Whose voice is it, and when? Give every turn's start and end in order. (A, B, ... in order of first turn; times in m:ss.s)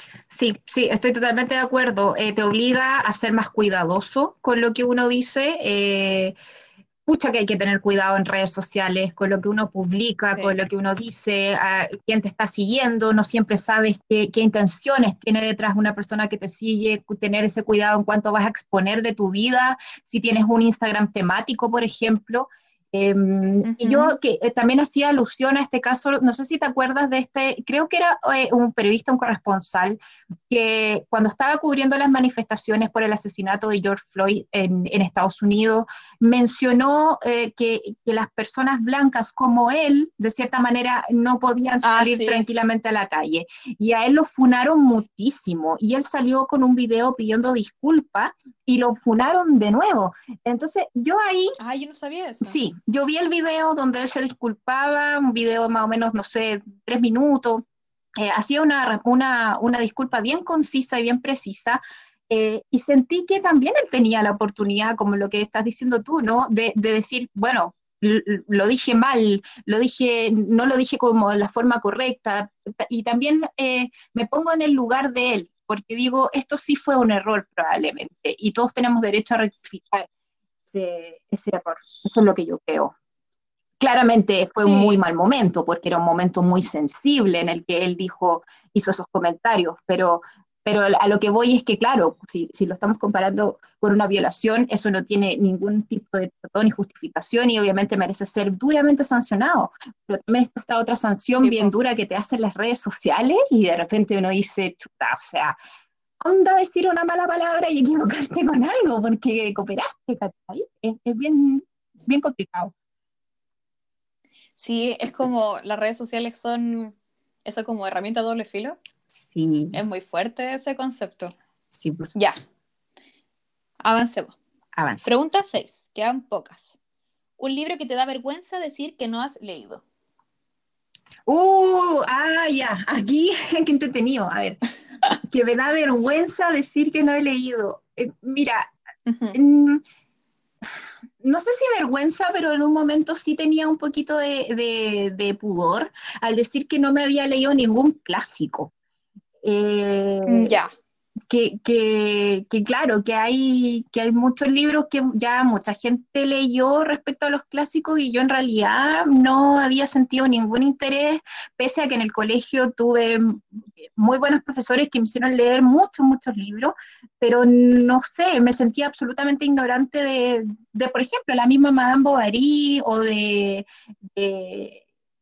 0:00.3-0:06.3 A
0:07.1-0:51.6 A
0:23.6-0:24.1 B
0:41.8-0:42.4 B
0:51.6-0:52.6 B
0:52.4-0:57.6 A
0:58.2-1:20.1 A
1:20.7-1:22.9 A
1:23.8-1:45.6 A
1:24.6-1:25.0 B
1:41.4-1:41.7 B
1:46.2-1:52.7 A
1:54.6-1:58.8 B
1:59.1-1:59.8 A
1:59.7-2:01.3 B
2:01.7-2:02.2 A
2:03.8-2:04.4 B
2:04.7-2:05.1 A
2:05.0-2:06.7 B
2:07.4-2:09.8 B
2:11.3-2:14.6 A
2:15.2-2:18.7 A
2:19.0-2:19.4 B
2:19.3-2:19.8 A
2:21.2-2:28.7 A
2:29.4-2:30.6 A
2:30.2-2:30.7 B
2:31.3-2:54.8 A